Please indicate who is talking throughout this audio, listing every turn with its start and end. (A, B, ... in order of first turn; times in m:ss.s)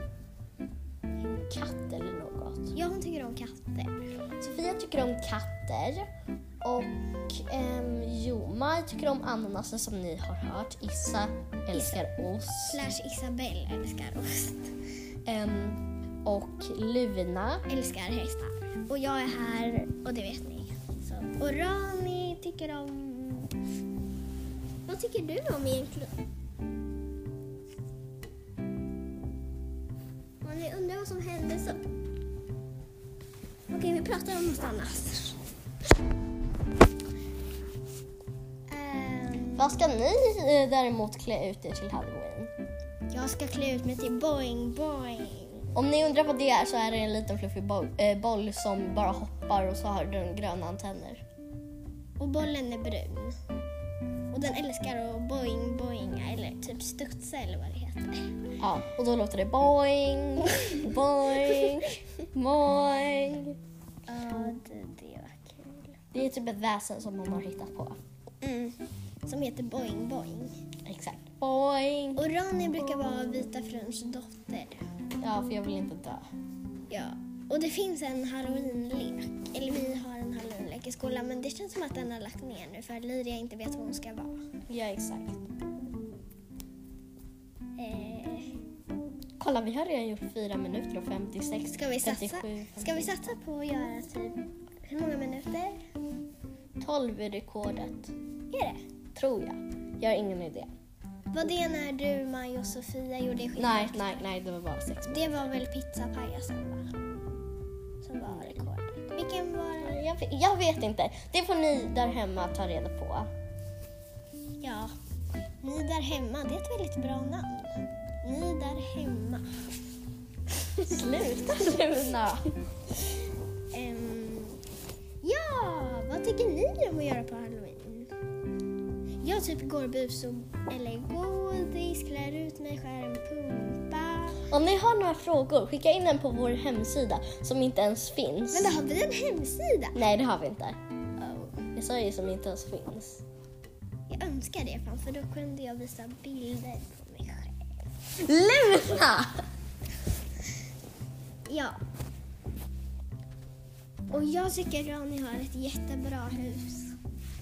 0:01.2-0:02.8 A
0:02.7-0:04.1 B
0:04.4-0:06.1 A
0:06.6-0:12.8 A
0:11.7-0:12.0 B
0:12.7-0:14.7 B
0:15.3-0:17.7 A
0:17.7-0:23.5 B
0:24.9-0:26.1 B
0:30.4-0:31.8 B
0:33.7-0:35.4 B
0:38.7-0:39.7 B
0:39.6-0:42.5 A
0:43.1-0:45.7 B
0:45.8-0:51.2 A
0:52.2-0:53.4 B
0:54.3-0:58.4 B
0:58.6-1:03.6 A
1:04.1-1:06.0 B
1:06.1-1:08.0 A
1:08.4-1:10.6 B
1:10.9-1:12.2 A
1:12.2-1:14.8 B
1:15.2-1:16.2 A
1:16.9-1:24.3 B
1:24.7-1:25.4 A
1:27.8-1:28.6 B
1:29.4-1:33.3 A
1:31.7-1:35.8 B
1:36.8-1:38.1 A
1:38.5-1:38.8 B
1:39.2-1:40.7 A
1:41.3-1:44.2 B
1:43.6-1:45.6 A
1:45.1-1:46.9 B
1:48.0-1:50.0 B
1:48.3-1:48.7 A
1:49.8-1:53.3 A
1:54.6-1:54.9 B
1:55.6-1:59.5 B
2:00.6-2:02.5 A
2:01.1-2:01.7 B
2:03.7-2:04.6 B
2:05.2-2:08.1 B
2:09.2-2:14.5 B
2:14.5-2:18.7 A
2:18.5-2:20.0 B
2:20.0-2:20.8 A
2:21.2-2:21.6 B
2:21.7-2:23.2 A
2:24.1-2:27.6 B
2:28.2-2:29.4 A
2:31.5-2:31.8 B
2:34.1-2:36.9 B